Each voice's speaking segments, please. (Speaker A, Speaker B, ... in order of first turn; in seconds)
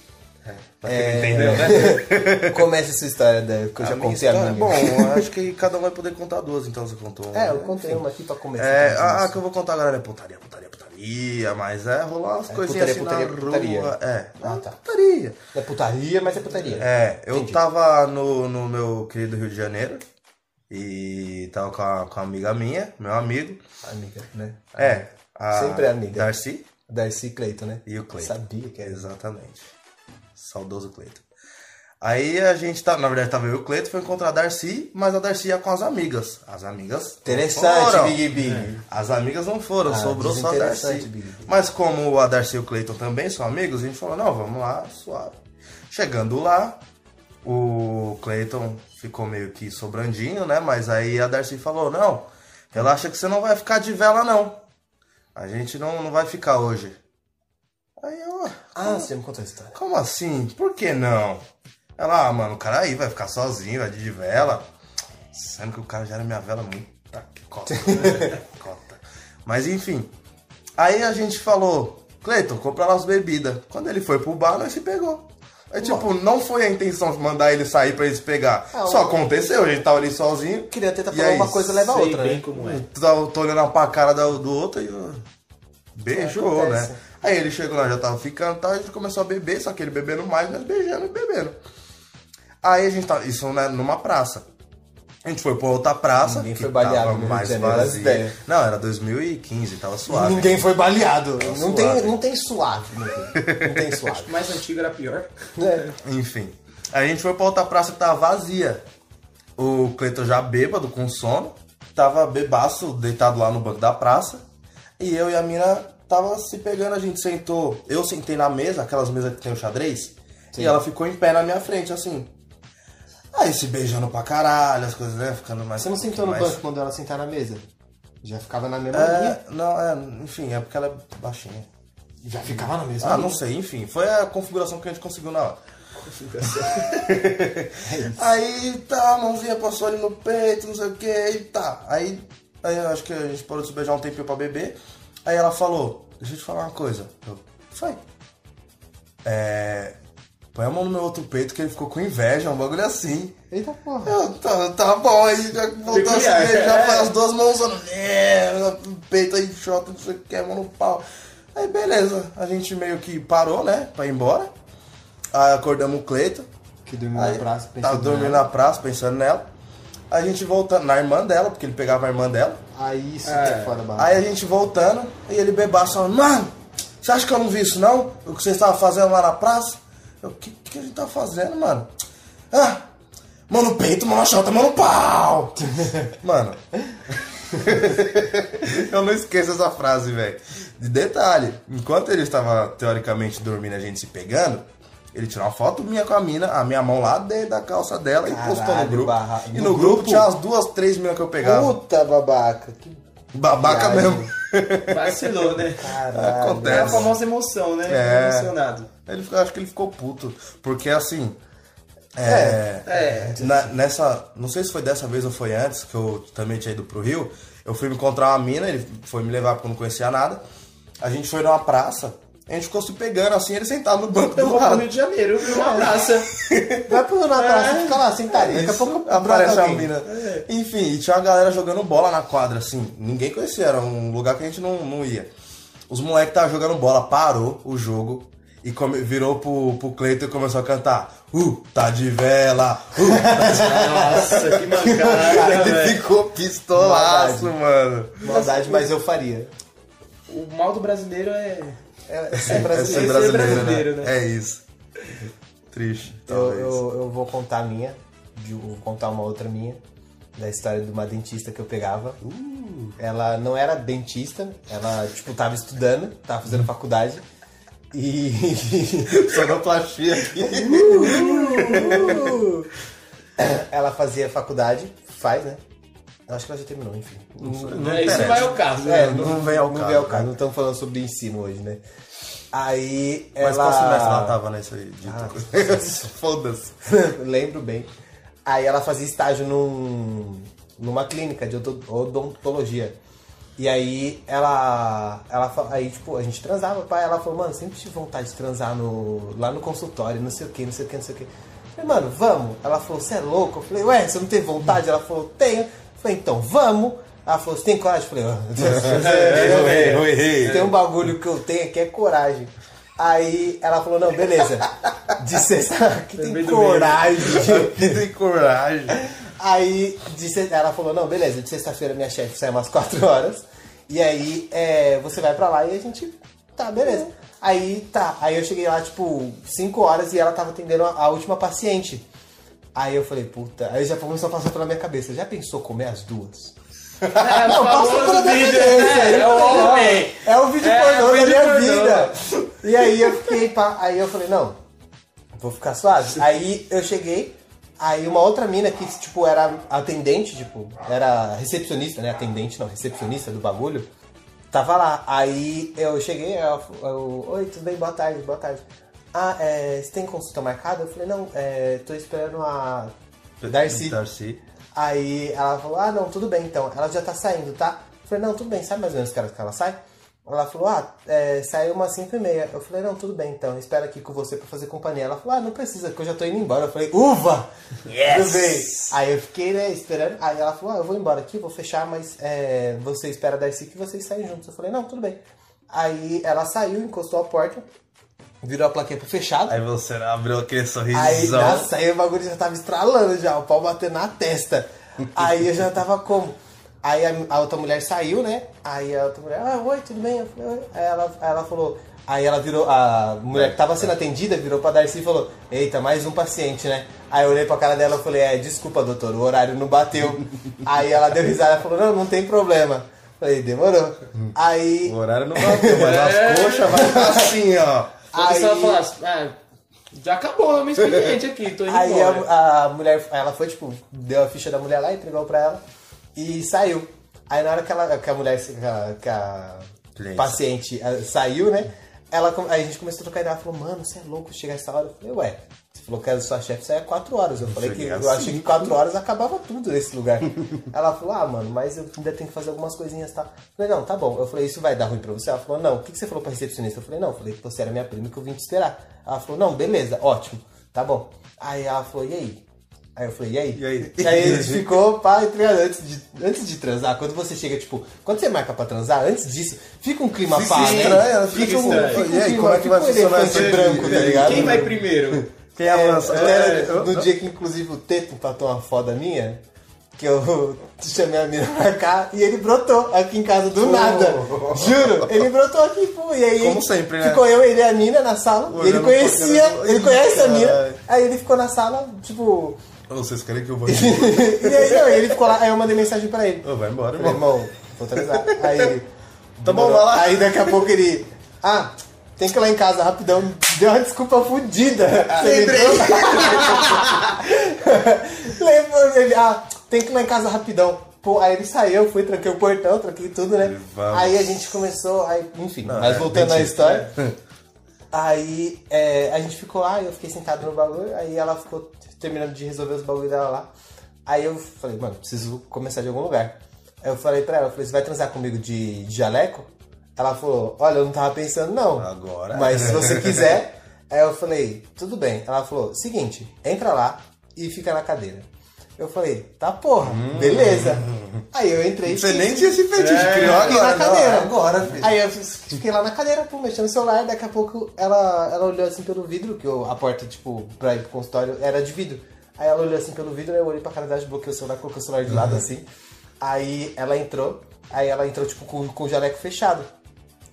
Speaker A: 0.4-2.6, 3.8-8.0, 8.6-15.4, 16.8-20.0, 20.7-23.6, 24.8-26.7, 27.9-29.7, 30.4-31.2, 32.0-38.3, 38.8-45.4, 45.9-46.8, 47.4-54.6, 55.4-57.0, 58.0-59.1, 59.7-61.4, 62.0-64.7, 65.3-70.1, 70.8-81.9, 82.5-85.2, 86.0-91.6, 92.6-94.5, 95.2-100.6, 101.4-102.2, 103.3-104.0, 106.0-108.8, 109.6-114.4, 115.0-122.3, 123.3-126.6, 128.9-131.7, 132.5-135.6, 136.5-148.0, 149.2-150.0, 150.5-153.3, 154.1-164.5, 165.3-166.5, 167.2-169.5, 170.1-172.6, 174.0-181.9, 182.5-182.9, 183.5-186.6, 187.6-201.8, 203.3-205.2, 206.1-207.2, 207.9-208.5, 209.1-211.4, 212.2-220.4, 221.0-224.9, 225.6-226.9, 228.3-235.3, 235.9-248.2, 252.4-254.6, 255.7-256.8, 262.2-263.0, 269.1-272.4, 277.4-280.3, 283.4-286.8, 308.6-310.7, 317.2-319.0, 363.4-364.4, 389.5-391.7, 403.3-403.9, 414.8-417.9, 429.9-430.4, 437.4-438.8, 453.6-454.8, 460.4-467.1, 473.6-475.3, 476.4-477.2, 478.5-480.8, 482.9-485.2, 486.4-487.4, 487.9-488.7, 489.4-490.7, 503.4-504.4, 505.7-507.1, 521.8-523.4, 529.8-531.2, 531.9-534.9, 545.1-545.4
Speaker B: 0.8-5.2, 7.3-9.4, 12.5-17.6, 23.8-26.3, 26.9-29.1, 37.2-38.8, 39.9-41.5, 58.8-59.8, 67.7-68.3, 75.8-76.0, 78.7-79.2, 80.7-82.5, 86.1-87.0, 96.2-98.4, 100.1-104.4, 105.6-105.9, 120.5-120.8, 125.8-127.6, 128.2-129.4, 132.2-133.4, 137.8-138.3, 153.5-154.2, 166.9-168.5, 172.7-174.2, 185.7-186.0, 198.2-200.3, 201.4-204.3, 205.6-207.1, 212.2-213.7, 225.5-225.9, 226.9-229.9, 243.0-245.9, 246.8-247.6, 248.2-249.5, 252.1-253.7, 256.3-259.8, 260.4-262.2, 263.0-267.2, 267.9-269.3, 270.5-272.7, 273.4-275.6, 276.3-281.8, 282.5-284.4, 285.0-286.1, 286.9-287.9, 288.5-293.0, 293.6-318.0, 319.0-332.1, 332.8-336.6, 337.2-344.6, 345.4-353.9, 354.5-358.6, 359.1-362.9, 363.5-364.0, 364.7-385.2, 385.7-387.7, 388.4-389.6, 390.9-416.1, 416.7-417.3, 418.1-418.8, 421.7-425.6, 426.1-452.4, 453.0-464.7, 465.7-469.4, 470.0-482.6, 483.7-488.9, 489.4-506.9, 507.9-513.5, 514.1-528.3, 528.8-545.6, 546.2-549.7
Speaker C: 16.5-16.8, 38.4-38.7, 81.9-82.9, 104.2-105.3, 136.0-137.1, 155.9-157.1, 173.2-173.8, 204.9-205.9, 206.6-208.9, 212.9-213.4, 224.3-226.3, 227.3-228.0, 230.0-230.5, 243.5-246.0, 248.2-248.9, 250.3-251.8, 252.4-254.1, 271.2-271.9, 277.8-279.3, 308.9-310.8, 316.2-317.2, 337.1-343.1, 377.9-378.9, 415.7-417.2, 418.1-419.4, 419.9-422.3, 460.3-462.0, 463.2-465.3, 466.1-466.7, 495.1-497.1, 532.7-533.6